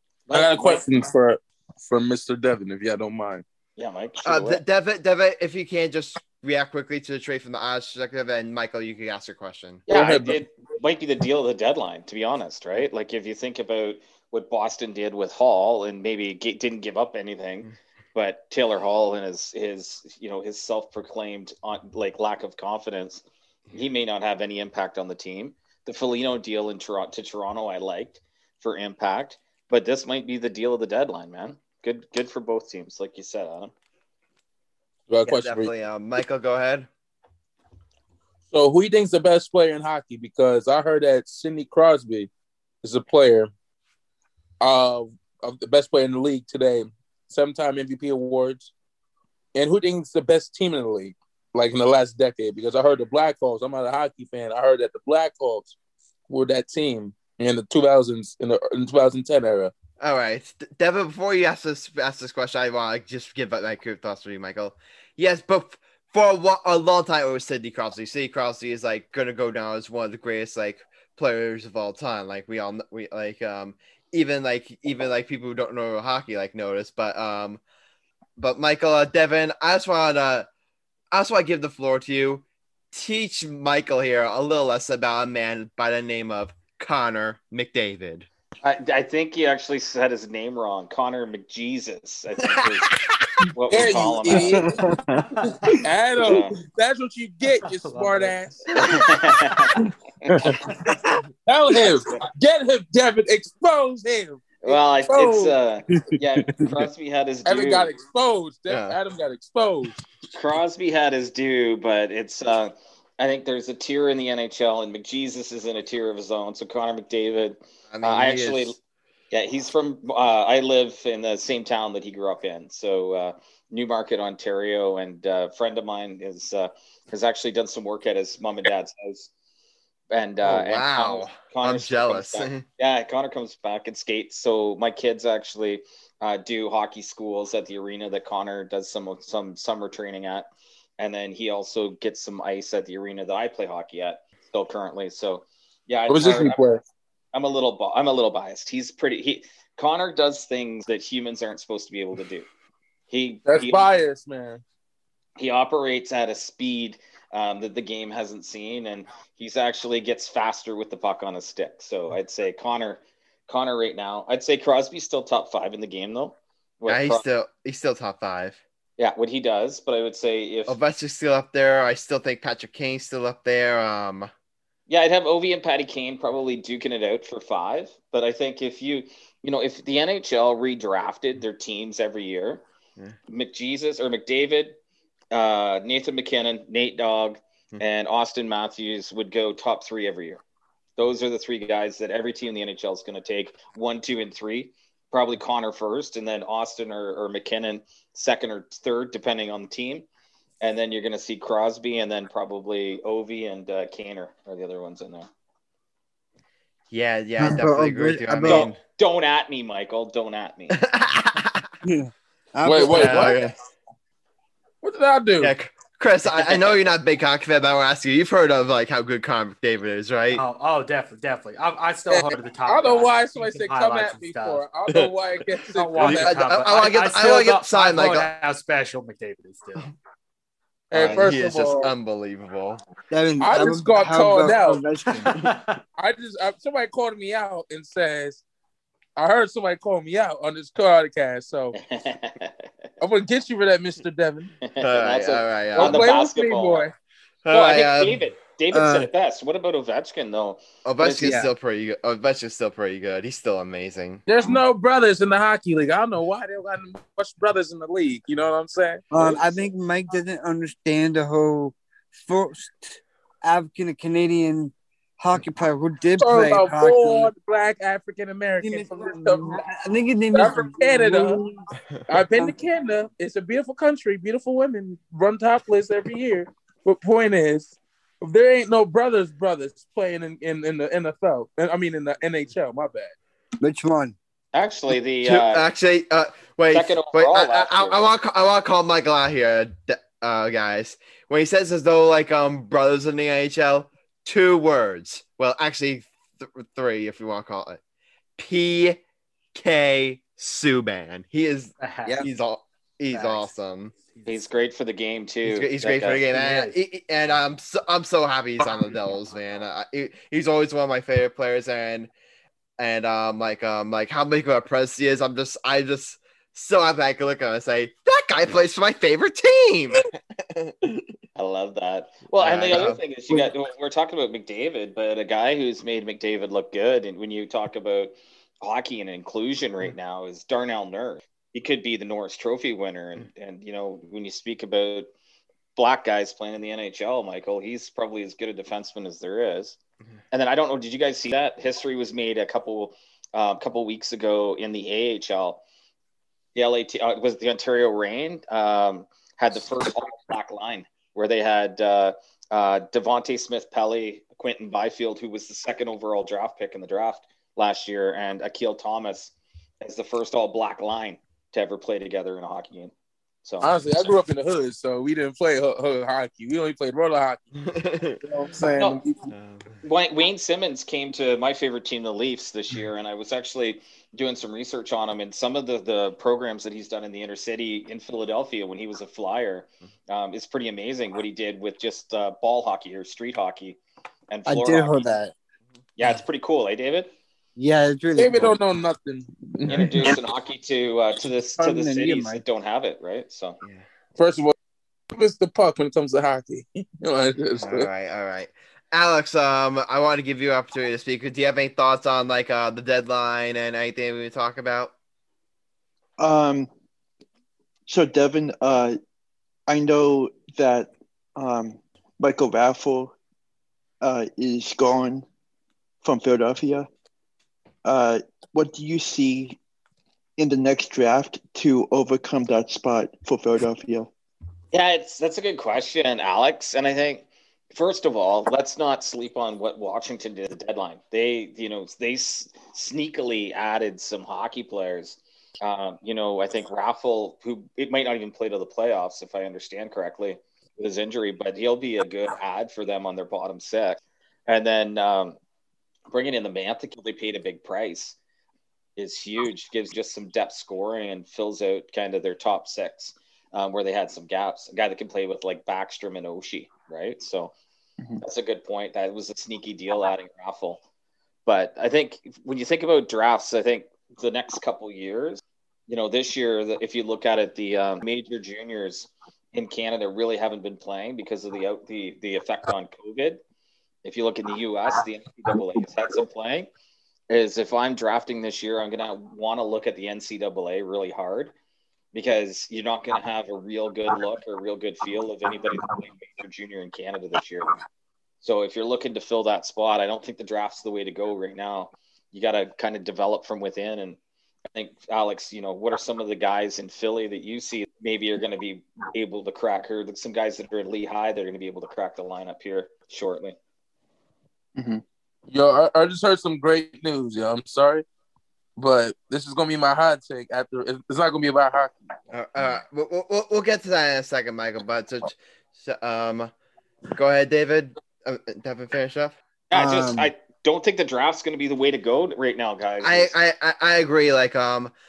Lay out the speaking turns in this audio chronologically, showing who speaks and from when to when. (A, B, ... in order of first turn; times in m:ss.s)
0:00.3-0:00.8 A
0:00.3-0:03.4 B
0:03.8-0:04.6 A
0:04.2-0:09.8 C
0:09.9-0:33.7 A
0:09.9-0:10.4 B
0:35.1-0:35.7 B
0:35.2-0:36.9 C
0:38.5-0:42.3 B
0:42.8-0:43.5 B
0:44.6-0:48.7 B
0:49.6-0:55.8 B
0:56.3-0:59.7 B
1:00.0-1:17.6 C
1:18.4-1:20.5 C
1:21.1-1:28.3 C
1:28.6-1:32.9 A
1:32.6-1:33.3 C
1:33.5-1:34.6 A
1:33.7-1:34.8 B
1:34.3-1:35.3 D
1:35.3-1:35.8 E
1:35.8-1:38.9 B
1:36.2-1:36.6 A
1:37.6-1:39.0 E
1:38.9-1:39.7 A
1:40.3-1:41.0 B
1:40.6-1:40.9 E
1:41.5-1:45.6 B
1:44.6-1:47.9 A
1:47.5-1:50.1 B
1:48.7-1:49.0 C
1:50.3-1:58.8 A
1:57.9-1:58.8 C
1:59.3-2:09.3 A
2:10.1-2:20.5 A
2:10.4-2:12.6 C
2:21.0-2:26.6 A
2:26.1-2:26.8 B
2:27.3-2:32.5 A
2:33.1-2:33.9 A
2:33.5-2:34.6 B
2:35.4-2:47.2 A
2:46.9-2:48.6 C
2:49.0-2:50.8 A
2:50.7-2:54.3 C
2:54.9-3:02.6 A
3:03.3-3:04.8 A
3:05.3-3:10.4 A
3:11.0-3:20.1 A
3:20.6-3:25.3 A
3:26.9-3:28.8 C
3:27.4-3:28.7 D
3:28.5-3:30.8 A
3:30.7-3:31.7 C
3:31.8-3:33.4 D
3:32.6-3:33.4 B
3:32.8-3:33.5 C
3:34.8-3:35.6 B
3:35.4-3:40.4 C
3:40.3-3:44.7 E
3:42.1-3:46.4 B
3:45.7-3:49.9 E
3:46.0-3:48.3 C
3:50.9-3:51.9 B
3:50.9-3:52.8 C
3:53.1-3:55.4 D
3:53.4-3:54.8 B
3:55.2-3:55.8 E
3:56.0-3:58.4 B
3:59.2-4:01.8 B
4:01.8-4:02.7 A
4:03.0-4:04.6 B
4:04.6-4:06.9 A
4:04.8-4:06.0 C
4:05.8-4:06.9 B
4:07.4-4:08.2 C
4:07.5-4:11.3 A
4:08.7-4:09.1 D
4:10.8-4:14.2 C
4:11.2-4:11.5 D
4:14.3-4:19.6 B
4:19.1-4:27.3 D
4:26.2-4:29.6 B
4:28.6-4:31.6 D
4:30.3-4:31.4 B
4:32.1-4:43.1 B
4:43.6-4:44.2 D
4:44.5-4:45.7 A
4:45.2-4:57.8 C
4:46.7-4:48.1 A
4:58.4-4:59.0 C
4:59.5-5:03.9 C
5:01.8-5:02.3 E
5:03.1-5:04.4 E
5:04.3-5:06.2 A
5:05.4-5:12.1 C
5:06.3-5:06.8 E
5:12.8-5:21.1 C
5:21.4-5:35.1 A
5:22.4-5:23.0 C
5:35.8-5:39.8 A
5:40.3-5:45.6 A
5:46.6-6:02.9 A
6:03.4-6:03.8 A
6:03.6-6:07.4 B
6:07.6-6:08.2 C
6:08.2-6:09.3 B
6:08.7-6:09.0 A
6:09.3-6:09.8 C
6:09.8-6:23.8 A
6:24.3-6:25.0 A
6:24.5-6:25.3 D
6:26.0-6:27.1 A
6:27.6-6:28.6 D
6:28.2-6:30.2 B
6:29.7-6:33.6 A
6:31.6-6:32.4 D
6:34.2-6:34.5 B
6:35.1-6:37.9 B
6:37.6-6:44.9 C
6:46.2-6:46.7 F
6:47.9-6:49.0 F
6:49.7-6:53.2 F
6:54.0-6:55.2 F
6:56.0-6:56.9 F
6:57.8-6:59.6 F
7:00.4-7:04.1 F
7:04.7-7:25.4 A
7:26.1-7:28.2 A
7:29.0-7:37.5 A
7:38.2-7:40.8 A
7:41.5-7:53.4 A
7:54.0-7:56.7 A
7:57.3-8:01.5 A
8:02.1-8:07.7 A
8:08.4-8:14.2 A
8:14.7-8:23.6 A
8:24.8-8:25.0 F
8:25.5-8:28.0 B
8:28.8-8:31.9 B
8:32.3-8:36.5 C
8:37.2-8:39.4 C
8:39.7-8:43.3 A
8:39.7-8:40.3 D
8:43.0-8:44.9 C